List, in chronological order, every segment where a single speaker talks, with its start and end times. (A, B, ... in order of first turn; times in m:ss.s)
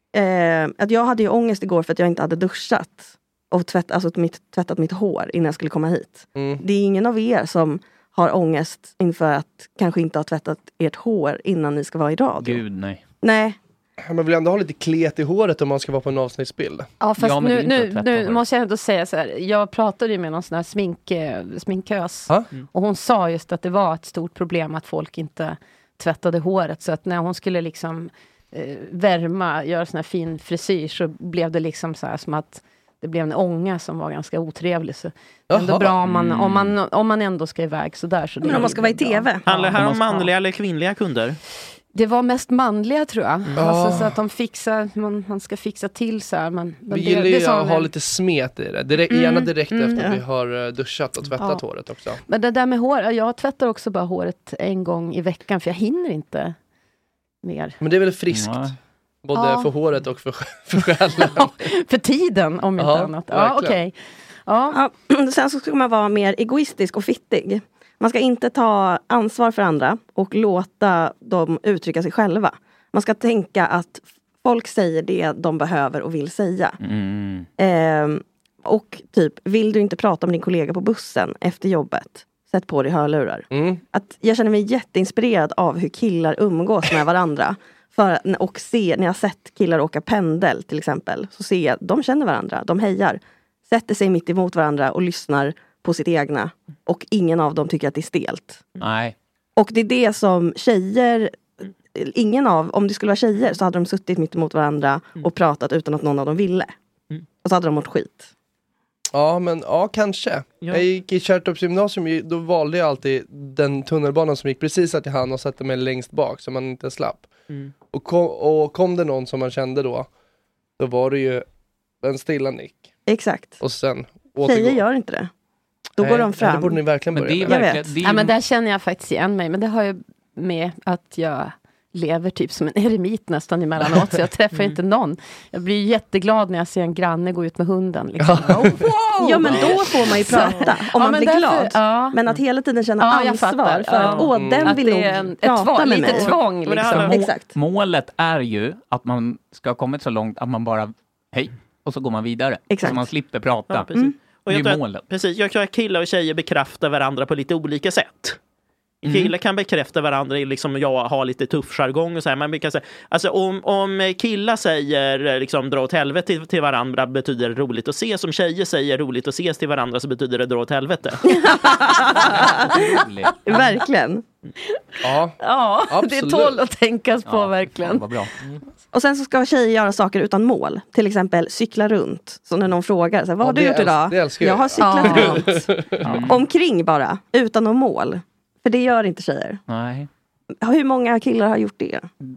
0:00.1-0:12.6 A
0:06.3-0:06.6 B
0:12.4-0:13.0 C
0:13.2-0:13.6 A
0:14.0-0:16.9 B
0:17.0-0:40.3 D
0:17.2-0:18.4 C
0:35.5-0:36.0 B
0:36.0-0:36.8 C
0:38.4-0:39.4 A
0:39.4-0:41.4 E
0:41.9-0:47.9 D
0:43.6-0:44.2 B
0:46.9-0:52.2 B
0:49.1-0:50.1 D
0:52.3-0:56.5 D
0:57.4-0:57.8 D
0:57.8-0:58.6 B
0:58.3-0:58.8 C
0:59.2-1:01.5 B
0:59.3-0:59.7 D
1:01.2-1:04.8 D
1:02.8-1:03.8 B
1:04.7-1:16.8 A
1:16.8-1:17.5 C
1:17.6-1:38.6 A
1:23.5-1:23.8 B
1:38.8-1:39.1 C
1:39.6-1:46.7 A
1:47.4-1:48.3 A
1:49.1-1:57.3 B
1:57.9-2:00.1 B
2:00.8-2:01.4 B
2:02.0-2:02.9 B
2:03.1-2:03.6 A
2:03.6-2:04.8 B
2:04.4-2:05.3 A
2:06.0-2:06.8 A
2:06.0-2:07.7 B
2:07.1-2:08.3 C
2:07.4-2:07.9 A
2:08.0-2:22.2 D
2:14.5-2:14.8 E
2:18.2-2:18.8 B
2:19.2-2:26.4 A
2:19.5-2:20.1 C
2:23.0-2:27.2 D
2:23.9-2:24.3 E
2:24.3-2:24.8 B
2:26.0-2:27.2 E
2:27.1-2:27.5 A
2:27.2-2:33.9 C
2:32.7-2:33.1 A
2:33.7-2:38.4 E
2:34.5-2:35.0 C
2:39.0-2:51.2 E
2:51.2-2:54.2 A
2:52.1-2:53.6 C
2:55.0-2:56.6 B
2:55.4-2:58.1 D
2:57.2-2:58.3 C
2:58.9-3:09.6 A
3:03.4-3:06.1 B
3:04.8-3:05.4 D
3:06.0-3:06.4 C
3:09.7-3:10.1 C
3:10.6-3:12.1 A